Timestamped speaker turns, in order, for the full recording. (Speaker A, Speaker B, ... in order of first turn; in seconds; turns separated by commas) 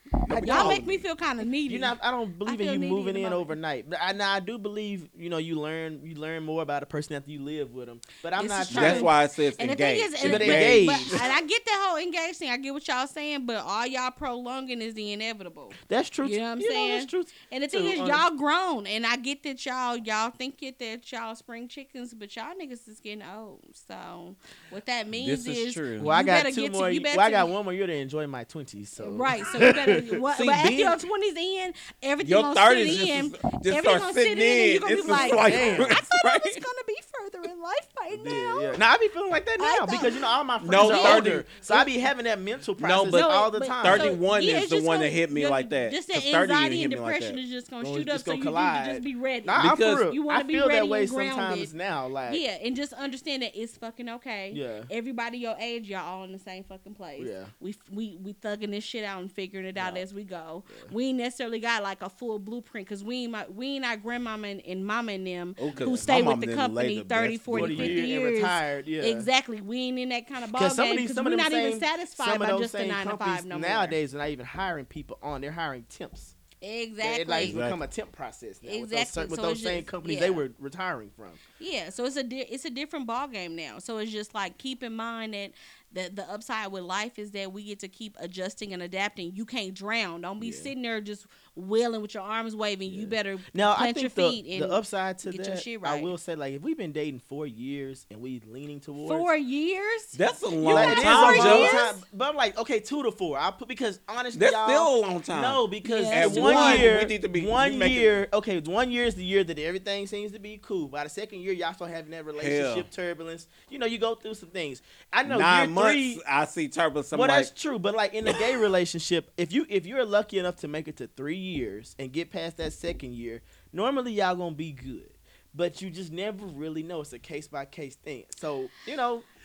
Speaker A: 0.3-1.1, Speaker B: 0.3-3.5, Speaker C: 0.3-0.9, Speaker A: 1.7-9.1, Speaker B: 8.4-27.5, Speaker C: 8.7-11.3, Speaker A: 10.2-11.2, Speaker A: 15.8-18.2, Speaker C: 25.1-26.1, Speaker A: 26.0-30.2, Speaker B: 29.0-38.8, Speaker C: 30.3-31.0, Speaker C: 32.2-36.7, Speaker A: 35.1-36.0, Speaker A: 38.1-44.2, Speaker B: 39.6-41.4, Speaker C: 40.6-41.5, Speaker C: 42.8-47.4, Speaker B: 43.1-51.7, Speaker A: 47.8-52.4, Speaker C: 49.6-50.1, Speaker B: 52.3-74.0, Speaker A: 54.5-54.9, Speaker A: 57.2-57.5, Speaker C: 65.6-68.0, Speaker A: 65.8-66.2, Speaker A: 67.5-69.3, Speaker A: 70.5-76.3, Speaker B: 76.6-77.6, Speaker A: 77.0-81.4, Speaker C: 77.4-77.8, Speaker B: 78.6-80.4, Speaker B: 81.6-96.1, Speaker A: 90.4-90.7, Speaker A: 92.9-99.3, Speaker B: 99.0-102.0, Speaker C: 100.2-101.8, Speaker A: 100.7-116.2, Speaker C: 104.3-108.2, Speaker B: 105.8-106.9, Speaker C: 112.4-112.9, Speaker C: 115.3-117.5, Speaker A: 117.1-129.3